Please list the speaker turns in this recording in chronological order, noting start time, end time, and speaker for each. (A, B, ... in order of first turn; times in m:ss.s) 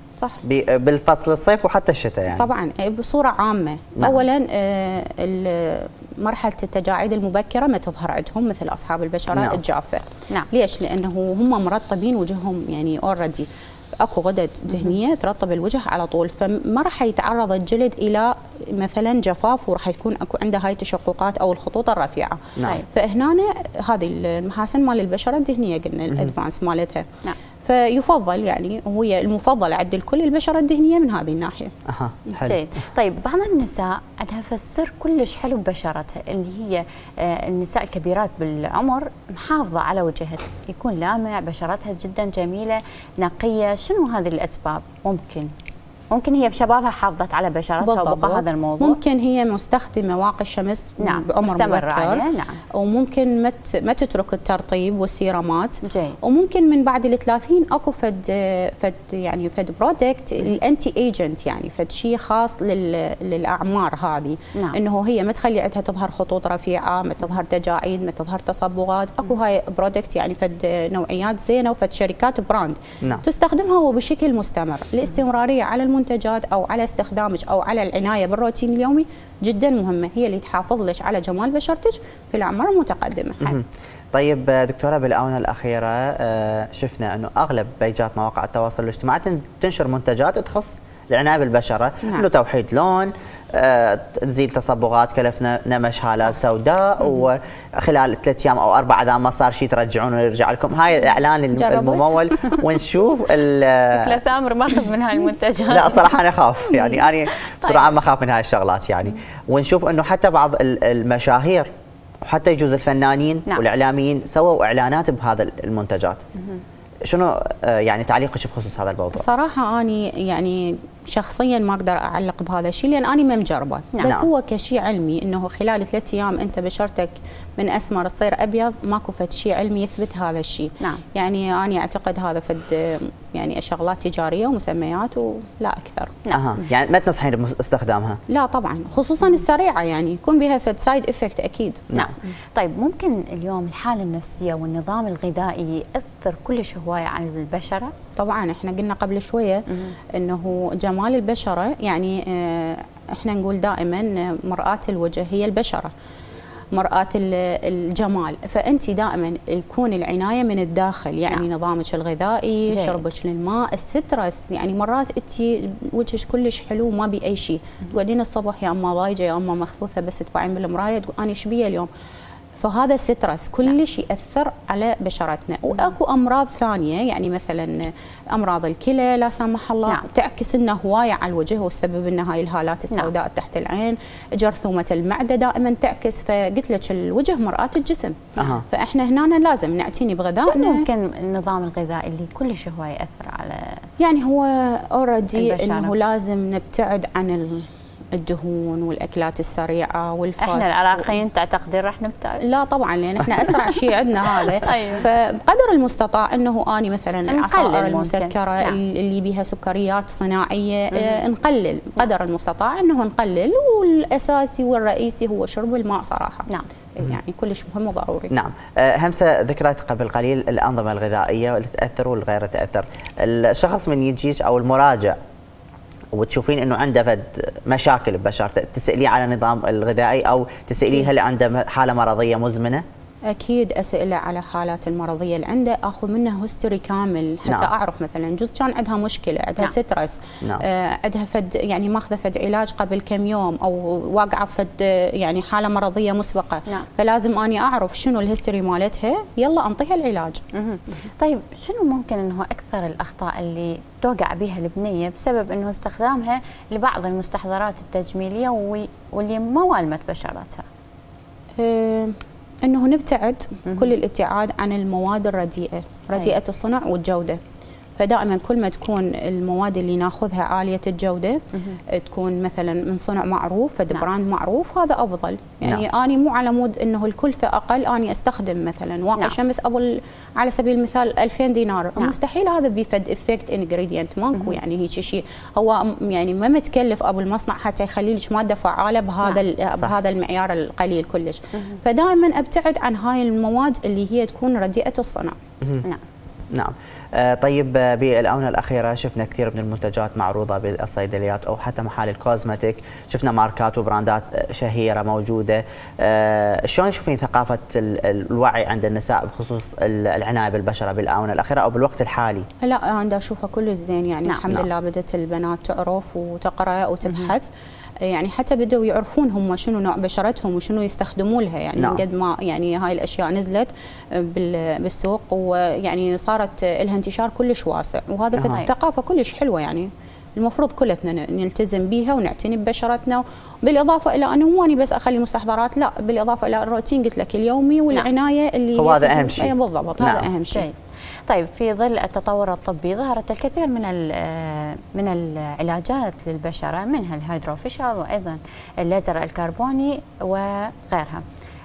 0:00.4-0:02.5 A
0:02.3-0:13.5 B
0:09.3-0:09.6 A
0:14.0-0:27.1 B
0:27.6-0:31.7 B
0:31.9-0:32.6 A
0:32.4-0:45.5 C
0:46.1-0:49.0 C
0:47.8-0:52.2 B
0:51.0-0:52.6 C
0:52.8-1:23.6 B
0:55.8-0:56.2 C
1:23.4-1:44.2 A
1:41.6-1:42.6 B
1:43.9-1:46.1 C
1:45.7-1:51.7 A
1:46.6-1:47.9 C
1:52.2-1:56.2 A
1:57.1-1:59.2 A
1:59.1-2:16.2 B
2:16.2-2:16.5 C
2:16.3-2:18.2 A
2:18.3-2:22.0 B
2:21.9-2:27.9 C
2:28.2-2:35.9 B
2:36.7-2:51.9 B
2:42.7-2:43.0 C
2:52.6-3:10.8 B
3:08.4-3:08.6 A
3:10.4-3:13.8 C
3:14.0-3:21.1 B
3:15.3-3:15.9 C
3:20.4-3:22.4 C
3:22.4-3:38.3 B
3:24.4-3:25.1 C
3:27.3-3:28.8 C
3:30.9-3:31.2 C
3:38.3-3:45.2 A
3:46.1-3:52.8 A
3:53.3-4:10.4 B
4:10.5-4:20.6 C
4:21.6-4:27.4 B
4:23.7-4:23.9 C
4:28.0-4:55.3 B
4:56.5-5:12.5 A
5:12.6-5:17.4 B
5:17.1-5:17.3 C
5:18.0-5:40.6 B
5:21.8-5:22.0 A
5:28.3-5:28.6 A
5:38.8-5:40.3 A
5:41.3-5:51.2 C